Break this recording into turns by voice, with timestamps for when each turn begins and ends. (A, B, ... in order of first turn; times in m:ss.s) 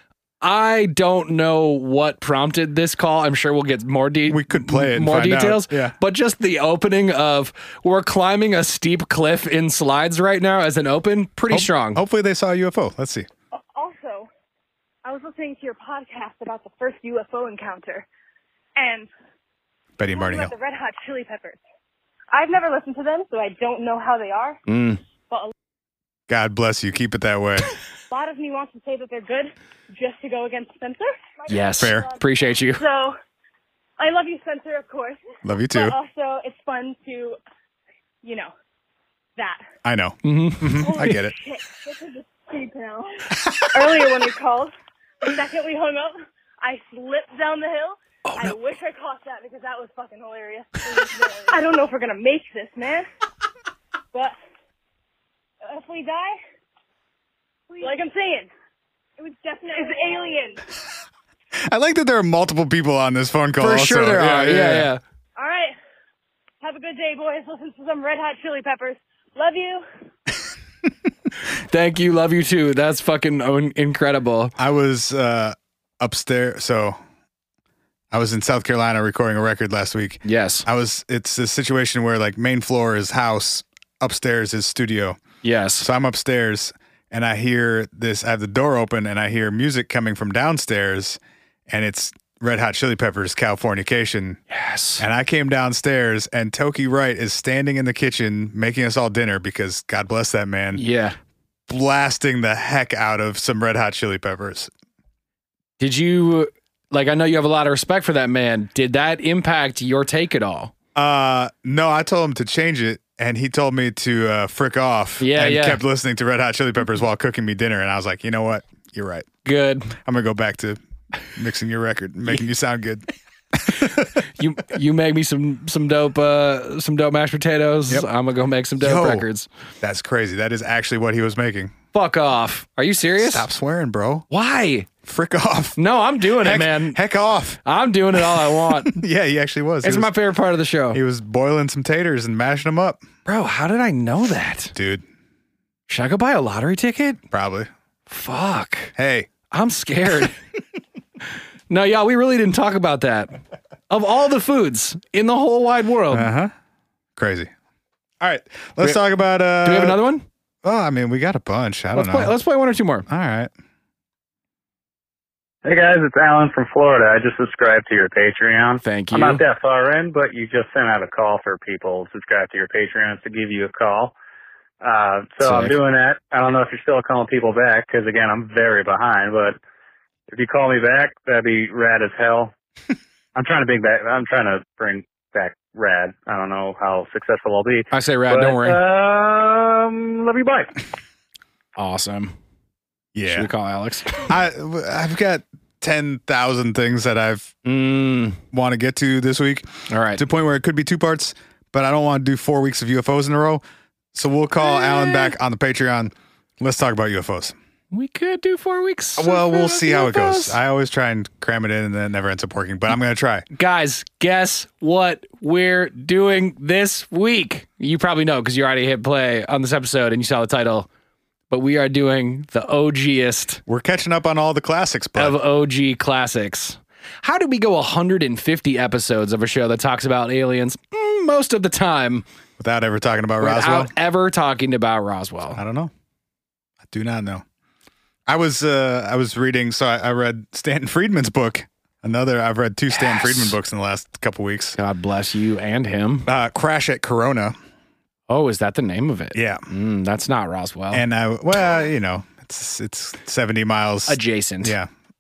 0:00.4-0:12.0 A
0:04.3-0:05.9 B
0:11.5-0:13.3 B
0:13.6-0:14.3 C
0:15.0-0:18.1 C
0:18.8-0:19.1 C
0:20.0-0:20.5 B
0:20.1-0:21.6 C
0:22.3-0:24.6 C
0:24.7-0:25.0 A
0:26.3-0:27.7 B
0:28.1-0:33.2 C
0:31.5-0:32.8 A
0:31.8-0:32.1 B
0:34.0-0:37.4 C
0:35.4-0:36.0 B
0:38.2-0:38.5 C
0:39.4-0:39.6 C
0:39.8-0:41.4 B
0:40.2-0:40.8 A
0:40.8-0:44.7 C
0:43.5-0:43.9 B
0:45.2-0:53.1 C
0:48.3-0:48.6 A
0:55.6-0:56.4 C
0:57.8-0:58.5 C
0:59.2-1:00.6 C
1:01.6-1:04.9 B
1:03.6-1:05.0 A
1:05.4-1:05.8 C
1:06.6-1:09.8 C
1:11.6-1:14.6 A
1:14.6-1:17.0 B
1:18.1-1:25.2 B
1:20.2-1:20.7 A
1:25.4-1:25.9 A
1:25.8-1:34.4 B
1:34.5-1:35.0 A
1:35.0-1:40.8 B
1:40.8-1:41.2 A
1:41.7-1:44.7 B
1:45.8-1:50.7 A
1:51.0-1:59.3 B
1:55.2-1:55.8 A
1:59.4-2:00.0 A
2:00.0-2:00.8 B
2:01.3-2:04.1 B
2:04.4-2:09.5 A
2:08.8-2:09.3 B
2:09.8-2:11.8 B
2:11.9-2:13.5 A
2:13.2-2:14.3 B
2:14.3-2:14.9 A
2:15.0-2:15.8 B
2:15.8-2:17.0 A
2:16.4-2:17.6 B
2:17.6-2:19.0 A
2:18.1-2:20.1 B
2:19.8-2:21.0 A
2:20.9-2:23.0 B
2:23.3-2:24.8 A
2:24.8-2:25.0 B
2:25.9-2:27.2 A
2:27.3-2:27.7 B
2:28.1-2:28.9 A
2:29.0-2:29.3 B
2:29.5-2:30.4 A
2:31.7-2:33.4 A
2:33.9-2:36.3 A
2:36.1-2:36.5 B
2:37.2-2:37.5 B
2:38.2-2:40.0 B
2:39.6-2:40.3 A
2:40.6-2:42.4 B
2:41.9-2:43.1 A
2:43.1-2:43.5 B
2:45.6-2:54.1 D
2:48.8-2:49.4 A
2:54.8-2:59.6 D
2:55.4-2:55.8 A
3:00.3-3:02.5 D
3:03.4-3:10.8 D
3:07.9-3:08.8 A
3:11.8-3:12.4 A
3:13.2-3:13.5 B
3:13.3-3:14.3 A
3:14.3-3:17.5 B
3:17.6-3:18.4 A
3:18.5-3:23.6 B
3:19.9-3:20.2 A
3:24.1-3:27.6 B
3:24.6-3:25.3 A
3:27.9-3:30.6 A
3:29.2-3:33.4 B
3:33.5-3:40.9 A
3:41.5-3:43.6 A
3:43.7-3:45.4 B
3:45.2-3:52.3 A
3:52.6-3:53.9 B
3:53.4-3:55.6 A
3:55.6-3:55.9 B
3:56.9-3:57.4 B
3:58.3-4:04.8 B
4:02.9-4:03.6 A
4:04.8-4:06.3 A
4:06.3-4:07.6 B
4:08.3-4:11.0 A
4:09.3-4:09.7 B
4:10.9-4:14.9 B
4:14.1-4:14.8 A